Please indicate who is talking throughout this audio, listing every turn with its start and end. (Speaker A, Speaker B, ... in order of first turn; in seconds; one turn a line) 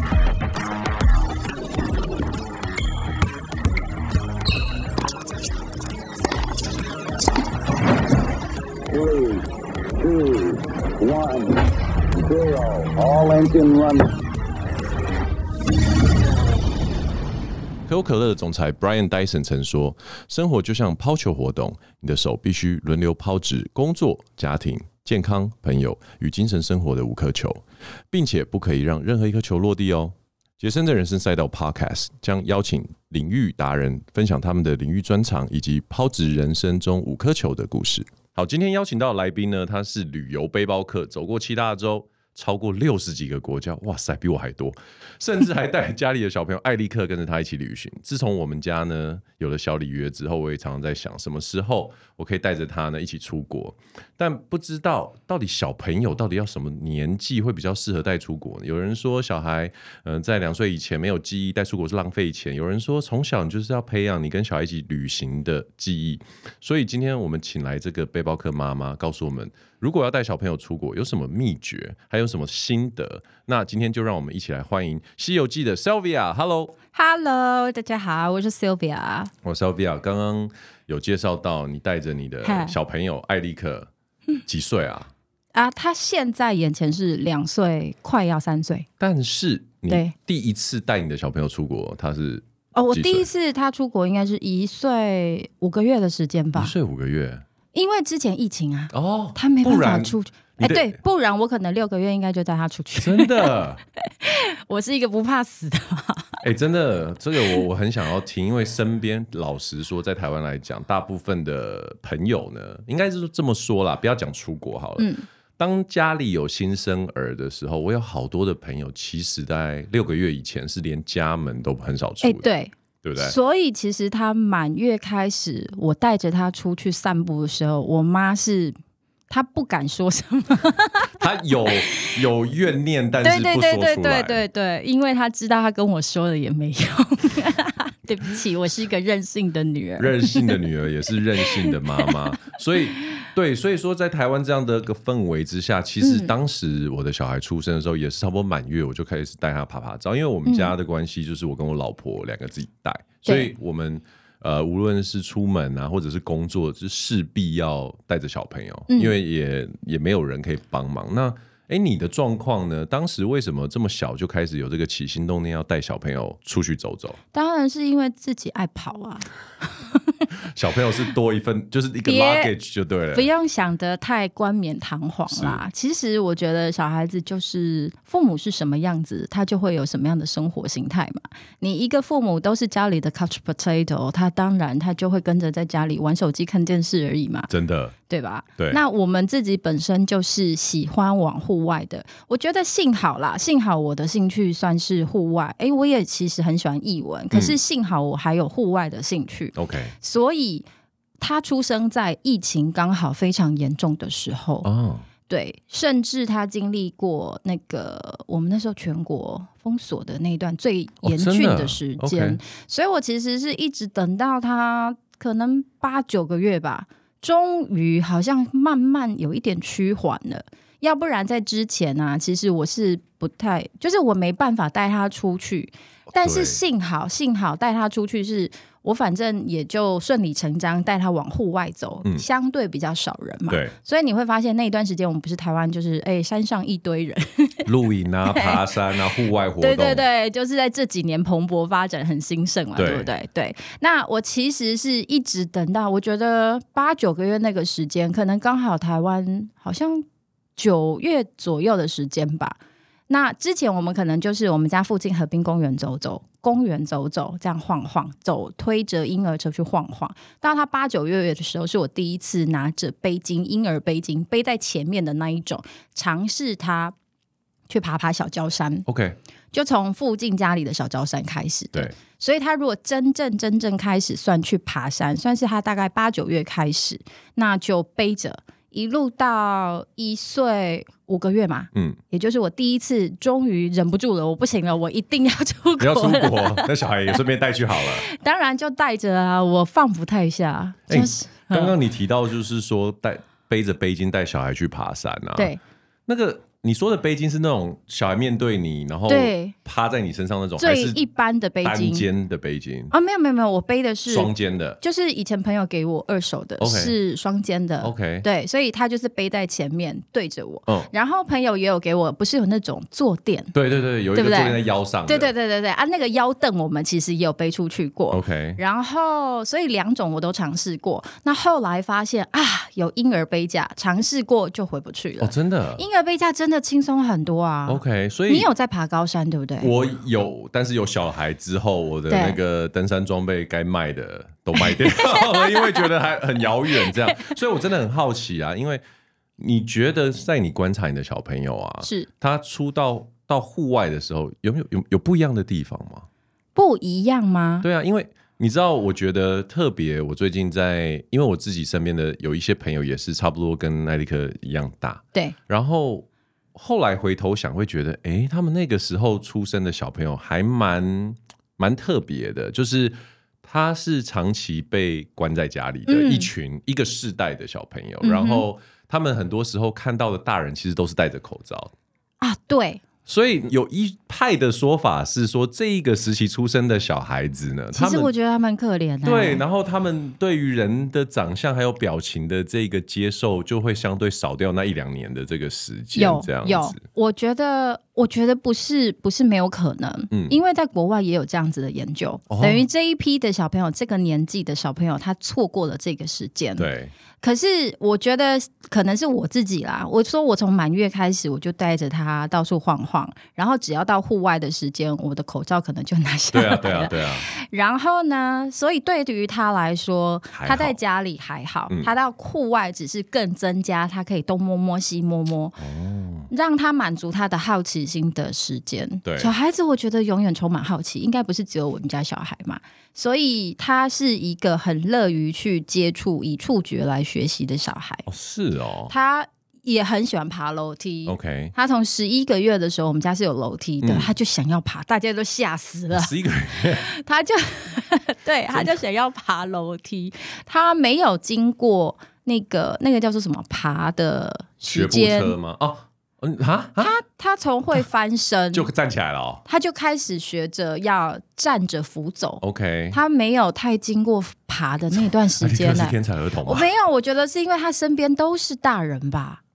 Speaker A: 8.9-11.6
Speaker A: 12.2-14.1
Speaker B: 17.9-76.8
Speaker C: 76.9-79.3
Speaker B: 79.4-83.9
Speaker C: 82.4-82.8
Speaker B: 84.5-85.1
Speaker C: 85.5-88.9
Speaker B: 89.0-93.3
Speaker C: 89.9-90.2
Speaker C: 92.8-96.7
Speaker B: 96.6-97.4
Speaker C: 97.7-106.4
Speaker B: 98.9-101.0
Speaker B: 103.0-103.8
Speaker B: 106.4-122.5
Speaker C: 115.0-115.3
Speaker C: 122.2-128.8
Speaker B: 123.0-123.3
Speaker C: 129.3-131.1
Speaker B: 131.2-134.4
Speaker C: 131.7-132.2
Speaker C: 133.2-140.6
Speaker B: 140.0-167.2
Speaker C: 141.4-142.1
Speaker C: 143.0-143.2
Speaker C: 146.0-146.3
Speaker C: 150.5-150.7
Speaker C: 153.2-153.5
Speaker C: 158.9-159.2
Speaker C: 167.3-170.2
Speaker B: 170.5-173.3
Speaker C: 172.1-172.5
Speaker C: 173.1-187.5
Speaker B: 175.3-175.6
Speaker B: 187.5-187.9
Speaker C: 188.1-200.7
Speaker B: 197.3-197.6
Speaker B: 199.6-199.9
Speaker C: 201.2-204.7
Speaker B: 204.6-205.1
Speaker C: 205.3-237.7
Speaker B: 211.0-212.4
Speaker B: 226.1-226.6
Speaker B: 233.5-233.7
Speaker B: 237.7-240.1
Speaker C: 238.3-238.6
Speaker C: 239.6-250.1
Speaker B: 242.8-243.1
Speaker C: 250.6-252.6
Speaker C: 253.1-266.9
Speaker C: 267.7-268.9
Speaker B: 268.9-269.2
Speaker C: 269.5-287.1
Speaker B: 281.7-282.0
Speaker B: 285.8-288.1
Speaker C: 287.8-291.8
Speaker B: 290.9-295.5
Speaker C: 295.4-295.6
Speaker B: 296.1-301.0
Speaker C: 299.1-299.6
Speaker C: 300.6-302.1
Speaker B: 301.6-302.9
Speaker C: 302.9-313.5
Speaker B: 304.1-304.8
Speaker B: 306.6-307.0
Speaker B: 307.8-308.3
Speaker B: 313.5-315.3
Speaker C: 314.1-329.7
Speaker B: 318.1-318.6
Speaker B: 325.2-325.8
Speaker B: 327.7-328.5
Speaker B: 329.6-338.8
Speaker C: 332.1-332.4
Speaker C: 334.6-335.9
Speaker C: 336.8-337.3
Speaker B: 339.4-346.1
Speaker C: 341.8-342.1
Speaker C: 346.6-347.7
Speaker B: 347.6-371.7
Speaker C: 365.9-366.3
Speaker C: 368.0-368.4
Speaker C: 372.2-372.8
Speaker B: 373.1-378.1
Speaker C: 377.7-379.4
Speaker B: 379.0-386.8
Speaker C: 385.9-396.7
Speaker B: 390.1-390.4
Speaker B: 392.3-392.6
Speaker B: 396.6-396.9
Speaker C: 397.2-415.6
Speaker B: 406.3-407.3
Speaker B: 410.4-410.8
Speaker B: 415.6-416.3
Speaker C: 416.3-428.1
Speaker B: 419.1-419.3
Speaker B: 428.1-428.9
Speaker C: 428.9-445.4
Speaker B: 431.1-431.5
Speaker B: 433.8-434.1
Speaker B: 435.9-436.9
Speaker B: 438.5-438.8
Speaker B: 444.7-446.9
Speaker C: 446.8-448.7
Speaker B: 448.5-449.4
Speaker C: 449.5-459.4
Speaker B: 452.4-453.0
Speaker B: 454.9-456.7